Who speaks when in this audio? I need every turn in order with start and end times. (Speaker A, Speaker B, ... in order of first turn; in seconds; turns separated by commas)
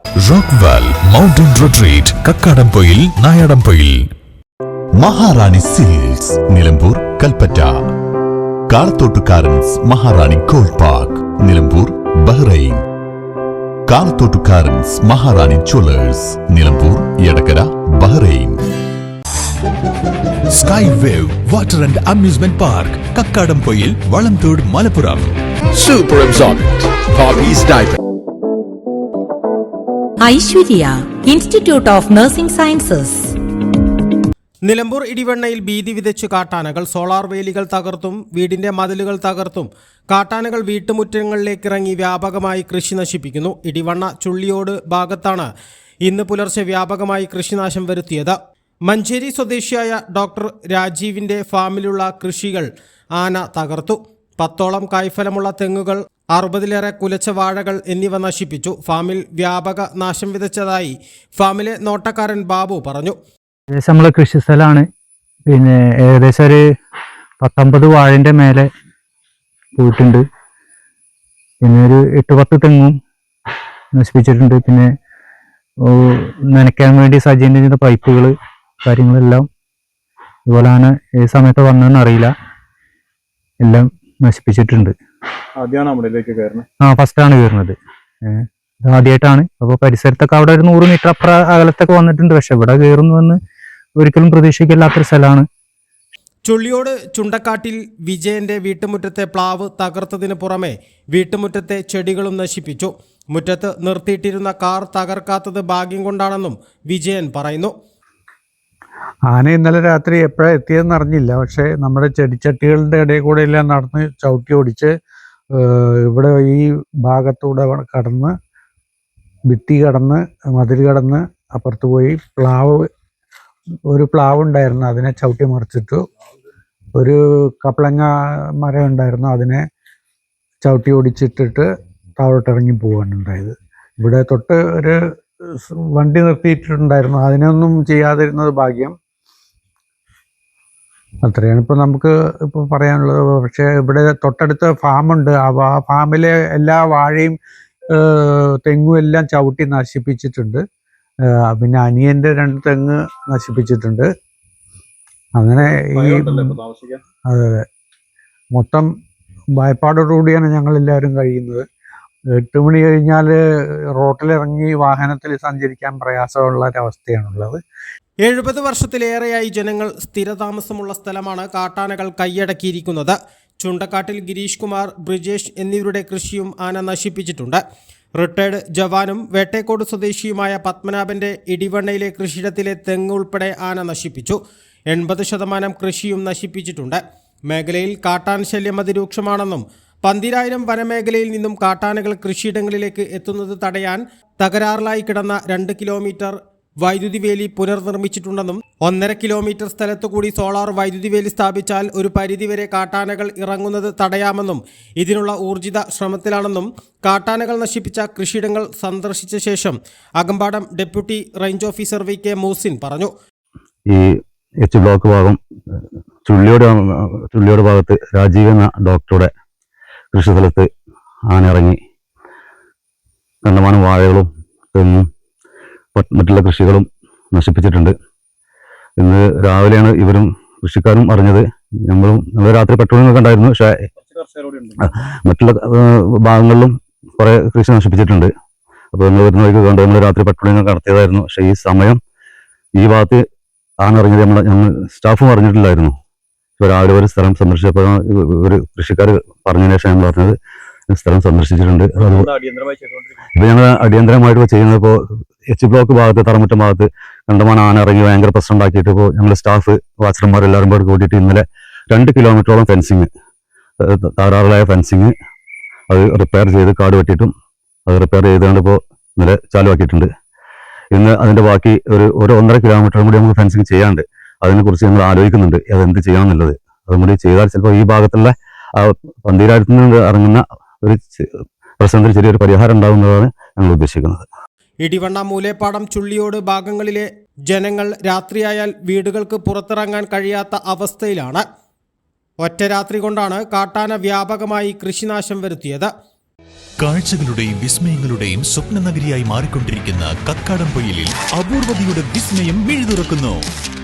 Speaker A: 0.2-4.1, Speaker A: 5.0-7.8, Speaker A: 8.7-12.8, Speaker A: 13.9-18.6, Speaker A: 20.5-25.4, Speaker B: 25.8-27.9, Speaker C: 30.2-33.3, Speaker D: 34.6-63.2, Speaker E: 63.7-64.8, Speaker E: 65.5-66.6, Speaker E: 67.4-68.7, Speaker E: 69.8-70.2, Speaker E: 71.6-73.0, Speaker E: 73.9-74.9, Speaker E: 75.8-79.5, Speaker E: 80.5-82.3, Speaker E: 83.6-85.0, Speaker F: 85.6-86.6, Speaker E: 86.8-93.4, Speaker E: 94.0-95.5, Speaker D: 96.4-107.7, Speaker G: 109.3-114.9, Speaker G: 115.6-118.3, Speaker G: 119.5-122.9, Speaker G: 123.9-126.0, Speaker G: 127.0-129.6, Speaker G: 130.6-131.6, Speaker G: 132.2-135.0, Speaker G: 135.6-138.9, Speaker G: 141.2-147.3, Speaker G: 148.0-150.6, Speaker G: 151.5-154.1, Speaker G: 155.4-156.6, Speaker F: 155.6-157.0, Speaker G: 157.3-157.6, Speaker G: 158.6-158.9, Speaker G: 159.6-161.6, Speaker G: 162.4-163.3, Speaker G: 164.0-167.6, Speaker D: 168.2-177.6, Speaker D: 178.2-184.3, Speaker D: 184.9-187.0, Speaker D: 187.5-213.1, Speaker H: 214.6-215.4, Speaker H: 216.2-219.3, Speaker H: 220.1-220.7, Speaker H: 221.3-221.8, Speaker H: 223.4-225.1, Speaker H: 225.9-227.9, Speaker H: 229.0-233.7, Speaker F: 234.0-234.8, Speaker H: 235.2-238.3, Speaker H: 238.9-242.0, Speaker H: 242.8-243.2, Speaker H: 243.8-245.9, Speaker H: 246.6-250.3, Speaker H: 250.9-252.3, Speaker F: 252.0-253.2, Speaker H: 253.4-254.9, Speaker H: 255.5-263.1, Speaker H: 263.8-265.1, Speaker H: 265.9-267.3, Speaker H: 267.9-270.1, Speaker H: 270.9-281.3, Speaker H: 281.8-284.2, Speaker D: 284.8-291.4, Speaker D: 292.4-295.9, Speaker A: 296.8-303.5